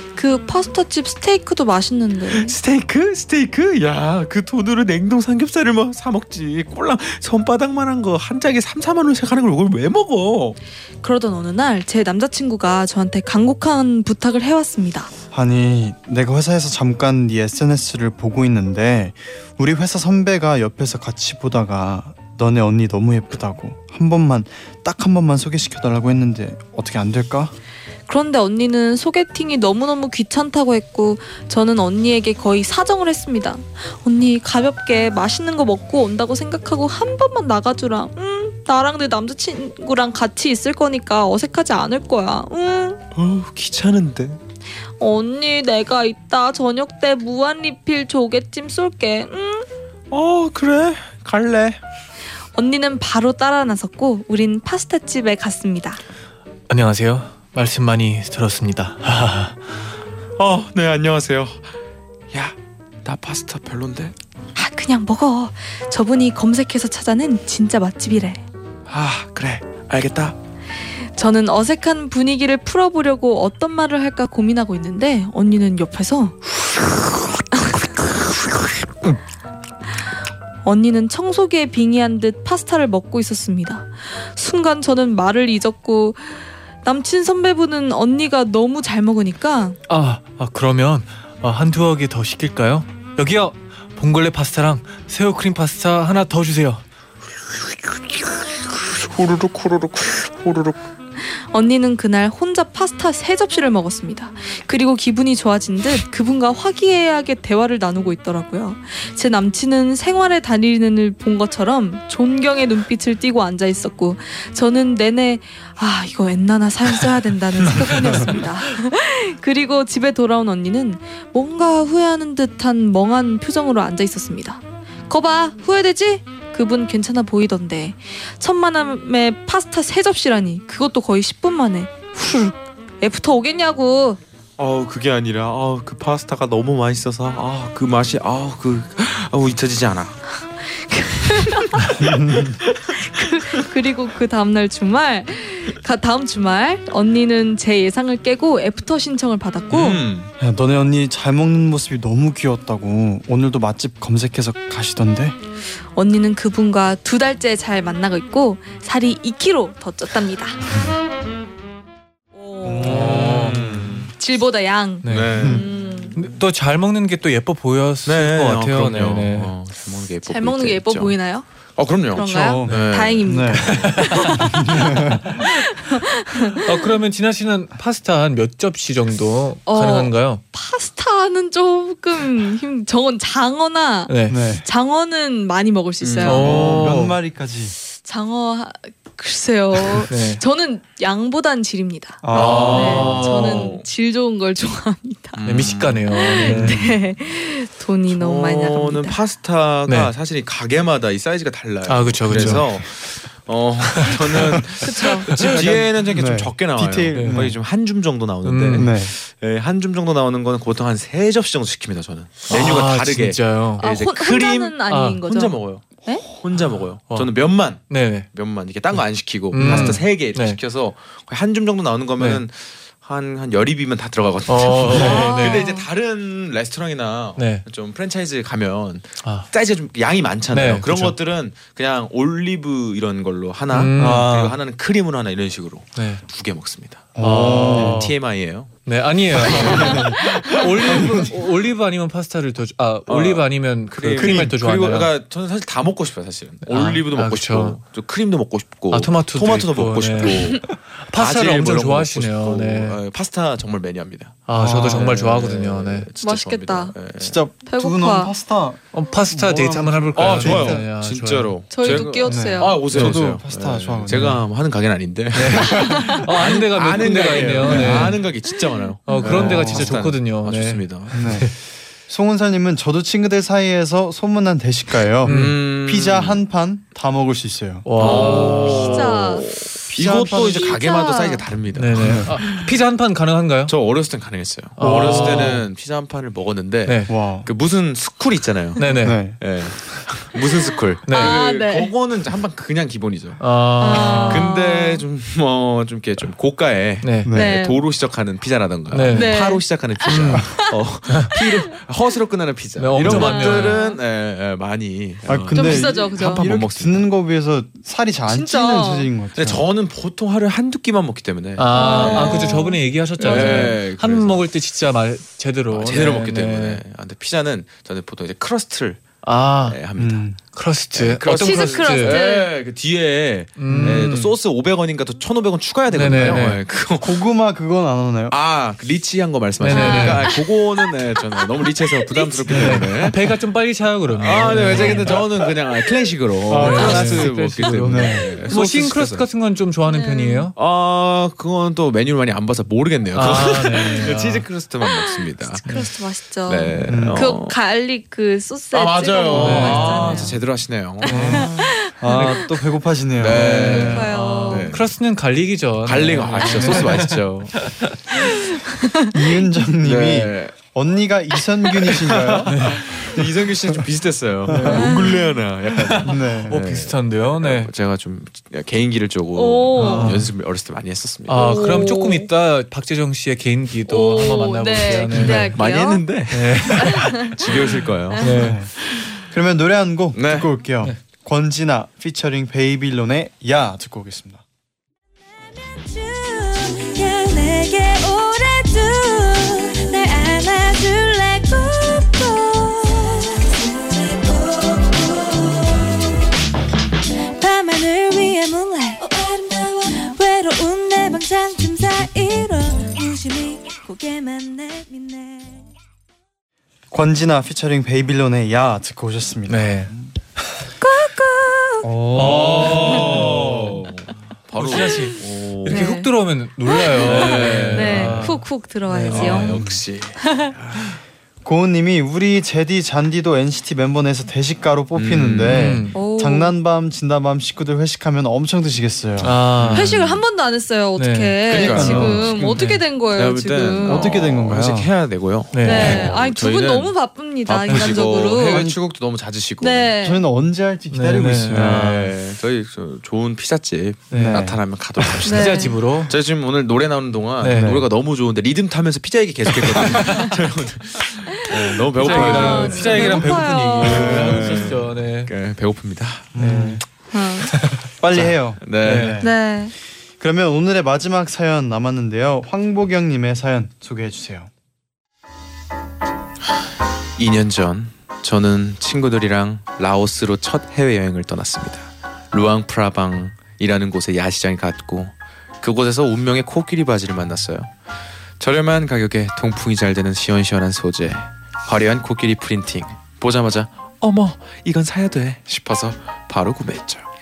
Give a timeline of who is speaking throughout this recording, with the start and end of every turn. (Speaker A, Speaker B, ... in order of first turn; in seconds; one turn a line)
Speaker A: 0.1-2.5
Speaker B: 2.3-10.6
Speaker A: 11.0-15.1
Speaker C: 15.3-27.5
Speaker A: 28.1-43.0
Speaker B: 43.1-44.4
Speaker A: 45.0-49.7
Speaker B: 50.1-51.8
Speaker A: 52.5-56.0
Speaker D: 56.7-59.6
Speaker B: 60.4-61.7
Speaker B: 62.3-64.1
Speaker A: 64.5-68.4
Speaker B: 68.9-70.3
Speaker A: 71.1-76.4
Speaker A: 77.5-77.8
Speaker A: 80.6-89.8
Speaker D: 89.9-96.8
Speaker B: 99.0-100.8
Speaker A: 101.3-134.2
Speaker B: 134.6-140.2
Speaker A: 140.6-141.9
Speaker C: 141.9-142.6
Speaker B: 142.7-143.3
Speaker A: 142.9-150.0
Speaker B: 149.7-150.3
Speaker C: 150.4-155.3
Speaker A: 155.9-160.7
Speaker A: 162.3-163.4
Speaker C: 162.6-164.1
Speaker D: 162.8-163.8
Speaker B: 162.8-164.1
Speaker A: 164.2-166.2
Speaker D: 165.0-165.5
Speaker B: 165.1-165.7
Speaker C: 165.4-165.6
Speaker D: 166.2-169.5
Speaker B: 168.0-171.2
Speaker A: 170.2-171.4
Speaker B: 171.8-173.9
Speaker A: 172.1-176.8
Speaker C: 172.3-173.8
Speaker D: 173.7-174.4
Speaker C: 174.4-175.4
Speaker D: 176.5-180.4
Speaker A: 179.7-186.5
Speaker D: 184.1-184.4
Speaker C: 184.3-184.7
Speaker B: 186.0-186.9
Speaker D: 186.2-187.2
Speaker C: 186.4-187.7
Speaker A: 188.0-195.4
Speaker D: 190.1-190.4
Speaker C: 192.2-193.1
Speaker D: 192.3-193.7
Speaker B: 192.3-193.8
Speaker B: 195.4-196.7
Speaker D: 195.4-196.9
Speaker A: 196.1-199.2
Speaker C: 196.4-196.9
Speaker B: 198.1-241.3
Speaker D: 199.9-200.1
Speaker D: 201.9-202.8
Speaker C: 202.3-202.6
Speaker D: 203.9-204.6
Speaker A: 204.8-205.3
Speaker D: 205.3-205.6
Speaker C: 205.3-207.6
Speaker D: 207.1-207.5
Speaker D: 208.4-208.9
Speaker C: 208.7-209.1
Speaker D: 212.5-213.8
Speaker A: 213.8-216.2
Speaker D: 214.9-215.2
Speaker D: 217.1-218.3
Speaker D: 219.5-220.6
Speaker C: 219.6-220.0
Speaker D: 222.2-222.4
Speaker D: 224.5-225.7
Speaker A: 224.9-225.8
Speaker D: 227.4-227.6
Speaker D: 229.2-229.5
Speaker D: 230.5-231.2
Speaker D: 233.7-234.3
Speaker C: 234.0-234.6
Speaker D: 235.9-236.2
Speaker C: 237.2-238.1
Speaker D: 237.2-238.1
Speaker D: 238.8-245.1
Speaker C: 239.4-240.2
Speaker C: 240.9-241.3
Speaker B: 243.1-257.4
Speaker C: 244.2-244.5
Speaker D: 246.6-247.8
Speaker D: 248.9-253.0
Speaker D: 254.5-256.1
Speaker C: 254.5-255.2
Speaker A: 256.2-257.0
Speaker C: 257.2-260.9
Speaker A: 257.6-258.3
Speaker D: 258.9-262.1
Speaker B: 260.1-271.3
Speaker A: 261.7-262.8
Speaker C: 262.2-264.4
Speaker D: 262.9-263.3
Speaker D: 264.1-264.4
Speaker D: 265.3-268.2
Speaker A: 265.6-266.2
Speaker C: 267.6-268.2
Speaker A: 269.1-269.4
Speaker D: 269.1-271.5
Speaker C: 269.2-270.0
Speaker C: 271.1-271.5
Speaker C: 272.1-278.5
Speaker D: 275.2-275.6
Speaker B: 275.2-276.4
Speaker D: 277.8-279.1
Speaker B: 278.0-282.6
Speaker A: 278.0-279.5
Speaker C: 279.9-280.8
Speaker A: 280.3-281.4
Speaker D: 281.7-283.7
Speaker C: 282.0-282.3
Speaker B: 283.7-307.1
Speaker D: 284.8-285.6
Speaker C: 284.8-285.6
Speaker D: 286.8-287.1
Speaker C: 287.1-287.5
Speaker D: 288.8-289.3
Speaker C: 289.0-289.4
Speaker D: 291.1-291.4
Speaker A: 291.1-291.9
Speaker D: 293.4-294.5
Speaker A: 293.8-295.0
Speaker D: 297.0-297.3
Speaker C: 297.2-297.6
Speaker A: 297.3-297.8
Speaker D: 298.9-299.5
Speaker A: 299.1-300.7
Speaker D: 300.1-301.4
Speaker A: 301.3-301.7
Speaker D: 302.8-303.8
Speaker A: 303.0-304.0
Speaker C: 305.2-309.6
Speaker A: 305.5-306.5
Speaker A: 308.3-309.1
Speaker B: 309.3-312.7
Speaker D: 311.6-316.8
Speaker A: 311.7-313.7
Speaker B: 313.2-314.4
Speaker B: 315.7-320.3
Speaker D: 319.2-319.8
Speaker C: 320.0-320.4
Speaker D: 320.4-322.2
Speaker B: 320.9-327.2
Speaker A: 321.3-322.5
Speaker D: 323.6-324.3
Speaker C: 323.7-324.1
Speaker D: 325.9-326.6
Speaker C: 326.1-326.4
Speaker C: 327.0-328.4
Speaker B: 328.3-333.3
Speaker D: 329.6-330.4
Speaker A: 329.7-330.6
Speaker A: 331.3-332.9
Speaker D: 332.5-335.2
Speaker B: 334.1-339.3
Speaker A: 334.7-335.2
Speaker C: 336.5-338.3
Speaker D: 336.5-340.5
Speaker A: 339.9-340.5
Speaker B: 340.6-345.6
Speaker D: 343.1-344.4
Speaker A: 344.9-350.4
Speaker B: 346.4-347.6
Speaker C: 346.9-347.3
Speaker B: 348.7-351.5
Speaker D: 349.3-350.3
Speaker A: 351.0-352.4
Speaker C: 351.1-354.0
Speaker D: 351.1-351.5
Speaker D: 352.1-352.4
Speaker B: 353.2-354.9
Speaker D: 353.3-357.9
Speaker A: 353.5-354.7
Speaker B: 355.8-357.6
Speaker A: 358.1-359.2
Speaker C: 359.1-363.8
Speaker B: 359.8-360.5
Speaker D: 362.4-362.8
Speaker B: 362.4-371.8
Speaker C: 364.5-365.0
Speaker D: 364.5-364.9
Speaker A: 364.7-365.3
Speaker D: 365.8-367.7
Speaker C: 366.0-366.7
Speaker A: 369.3-370.1
Speaker D: 369.8-370.3
Speaker D: 371.3-375.6
Speaker A: 371.3-372.3
Speaker A: 373.9-376.0
Speaker B: 375.1-379.1
Speaker D: 376.3-377.6
Speaker A: 376.7-378.3
Speaker D: 378.2-378.6
Speaker C: 378.3-384.4
Speaker B: 380.1-380.5
Speaker E: 385.9-393.2
Speaker A: 390.0-395.9
Speaker E: 394.7-395.0
Speaker E: 397.4-398.8
Speaker A: 397.5-405.5
Speaker E: 400.6-402.2
Speaker C: 406.9-410.1
Speaker D: 409.5-409.9
Speaker A: 410.8-411.9
Speaker C: 411.8-413.6
Speaker D: 412.1-413.9
Speaker B: 412.1-415.9
Speaker D: 414.5-419.8
Speaker A: 414.8-416.1
Speaker A: 416.6-419.6
Speaker B: 416.9-418.4
Speaker B: 419.1-420.9
Speaker A: 420.2-420.5
Speaker C: 421.4-429.4
Speaker B: 424.9-425.8
Speaker D: 425.4-426.0
Speaker A: 425.9-426.5
Speaker D: 429.2-430.2
Speaker B: 429.6-429.9
Speaker A: 429.7-434.1
Speaker D: 431.0-432.8
Speaker B: 431.5-432.5
Speaker C: 431.5-432.4
Speaker B: 433.1-436.9
Speaker C: 433.9-434.9
Speaker D: 435.5-436.1
Speaker A: 435.6-438.6
Speaker B: 437.4-439.9
Speaker D: 437.7-437.9
Speaker C: 438.5-438.8
Speaker A: 439.6-440.2
Speaker C: 440.0-442.1
Speaker D: 440.9-442.0
Speaker B: 441.5-456.4
Speaker D: 444.1-444.5
Speaker C: 444.1-444.6
Speaker D: 445.1-446.1
Speaker A: 445.2-445.8
Speaker D: 447.4-447.9
Speaker D: 449.6-450.3
Speaker A: 451.4-454.6
Speaker D: 451.9-455.3
Speaker C: 453.9-454.6
Speaker C: 456.3-456.8
Speaker D: 456.4-456.8
Speaker A: 457.1-457.5
Speaker D: 457.5-457.9
Speaker C: 458.0-459.3
Speaker B: 458.6-459.2
Speaker D: 458.8-459.2
Speaker A: 459.2-459.7
Speaker C: 460.2-464.5
Speaker B: 467.2-477.7
Speaker B: 478.4-487.1